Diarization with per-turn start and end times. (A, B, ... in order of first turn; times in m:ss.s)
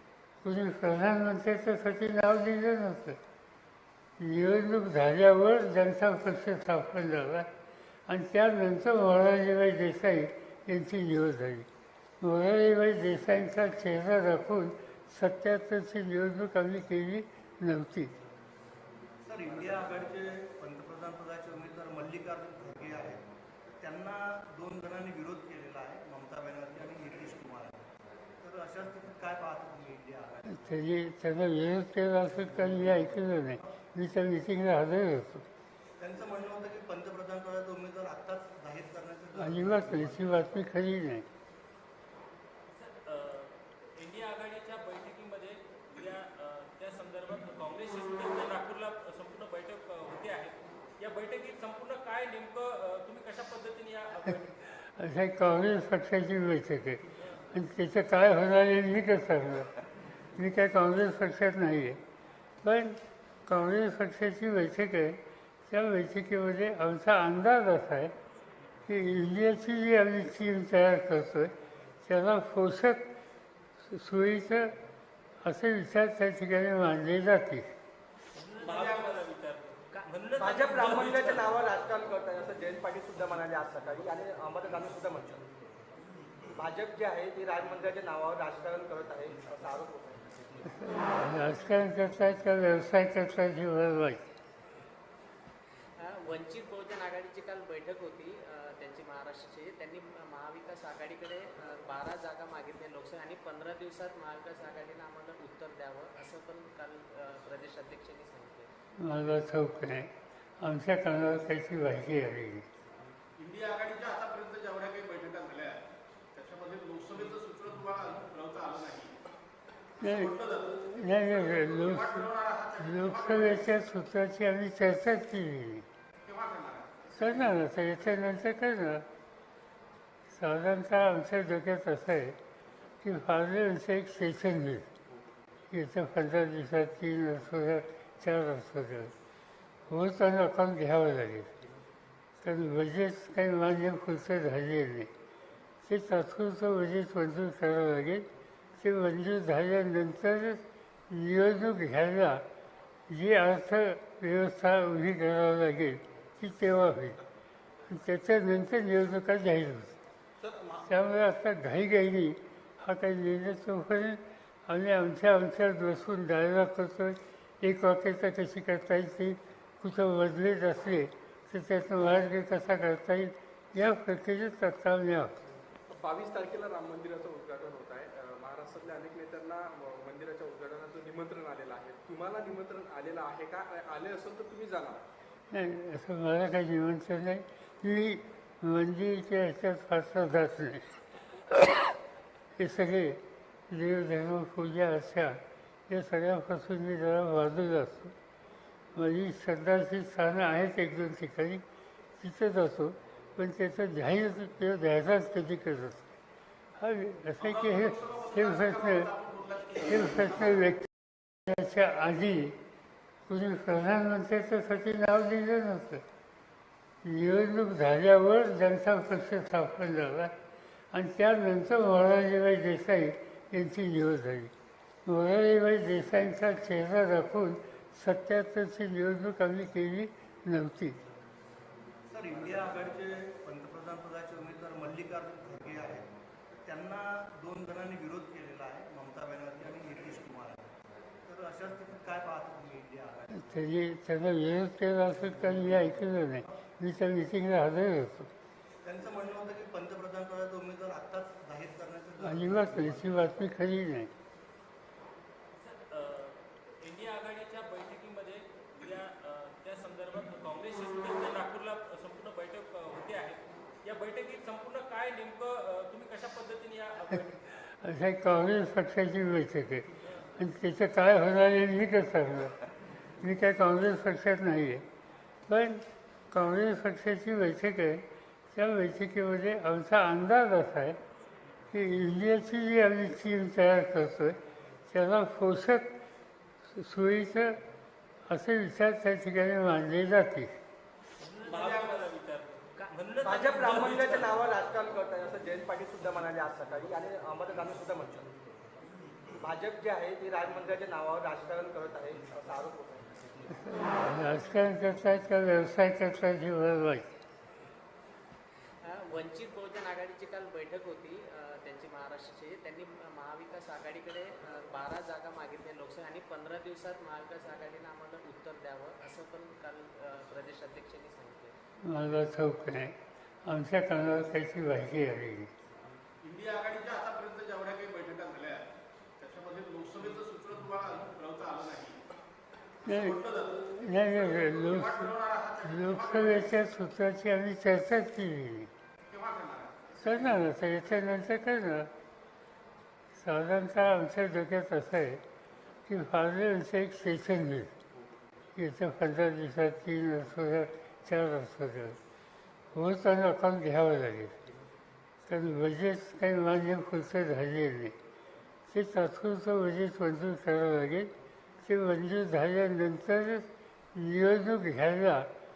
0:00.4-0:03.2 A
0:04.2-0:07.5 A
0:08.1-0:11.7 A
0:12.2-0:18.1 A
0:19.2-0:23.2 B
0:23.8-0:27.8 B
0:28.4-0:30.6 B
0:30.5-0:35.4 A
0:36.0-0:40.3 B
0:39.4-0:41.3 A
0:42.7-0:54.5 C
0:54.6-0:59.7 A
1:00.4-1:02.0 A
1:02.6-1:08.1 A
1:08.9-1:13.1 A
1:13.8-1:14.7 A
1:15.4-1:17.7 A
1:18.3-1:21.5 C
1:18.6-1:19.2 D
1:20.4-1:25.4 E
1:26.6-1:30.2 E
1:30.8-1:34.3 A
1:36.0-1:48.7 F
1:49.0-1:52.7 A
1:53.4-1:55.8 D
1:56.3-1:59.1 D
2:00.0-2:03.7 D
2:00.0-2:05.9 A
2:06.2-2:07.4 D
2:07.1-2:09.0 A
2:10.3-2:12.4 A
2:13.0-2:14.9 A
2:15.7-2:19.1 A
2:19.9-2:21.5 A
2:22.4-2:25.1 A
2:25.8-2:32.4 A
2:33.1-2:37.2 A
2:37.9-2:40.0 A
2:40.8-2:55.4 A
2:55.9-3:05.0 G
3:05.5-3:11.0 A
3:12.6-3:18.1 A
3:18.9-3:21.6 A
3:22.2-3:26.1 A
3:26.8-3:29.1 A
3:27.4-3:30.6 D
3:29.9-3:32.6 A
3:33.3-3:36.0 A
3:37.0-3:40.3 A
3:40.9-3:44.5 A
3:45.0-3:51.0 A
3:52.1-3:56.1 B
3:56.6-4:00.7 B
4:01.2-4:03.4 B
4:03.3-4:08.3 A
4:08.8-4:13.3 B
4:12.2-4:14.1 A
4:15.6-4:27.3 C
4:27.1-4:32.5 A
4:33.2-4:34.8 A
4:35.5-4:41.0 A
4:41.7-4:45.9 A
4:46.7-4:47.6 A
4:48.3-4:50.5 A
4:51.2-4:54.4 C
4:51.5-4:52.0 D
4:53.2-4:58.3 E
4:59.4-5:03.0 E
5:03.5-5:07.1 A
5:08.8-5:21.5 F
5:21.8-5:25.5 A
5:26.2-5:28.7 D
5:29.2-5:32.0 D
5:32.8-5:38.7 A
5:32.9-5:36.6 D
5:39.1-5:40.4 D
5:40.0-5:41.9 A
5:43.2-5:45.2 A
5:45.9-5:47.7 A
5:48.6-5:52.0 A
5:52.7-5:54.4 A
5:55.2-5:58.0 A
5:58.7-6:05.3 A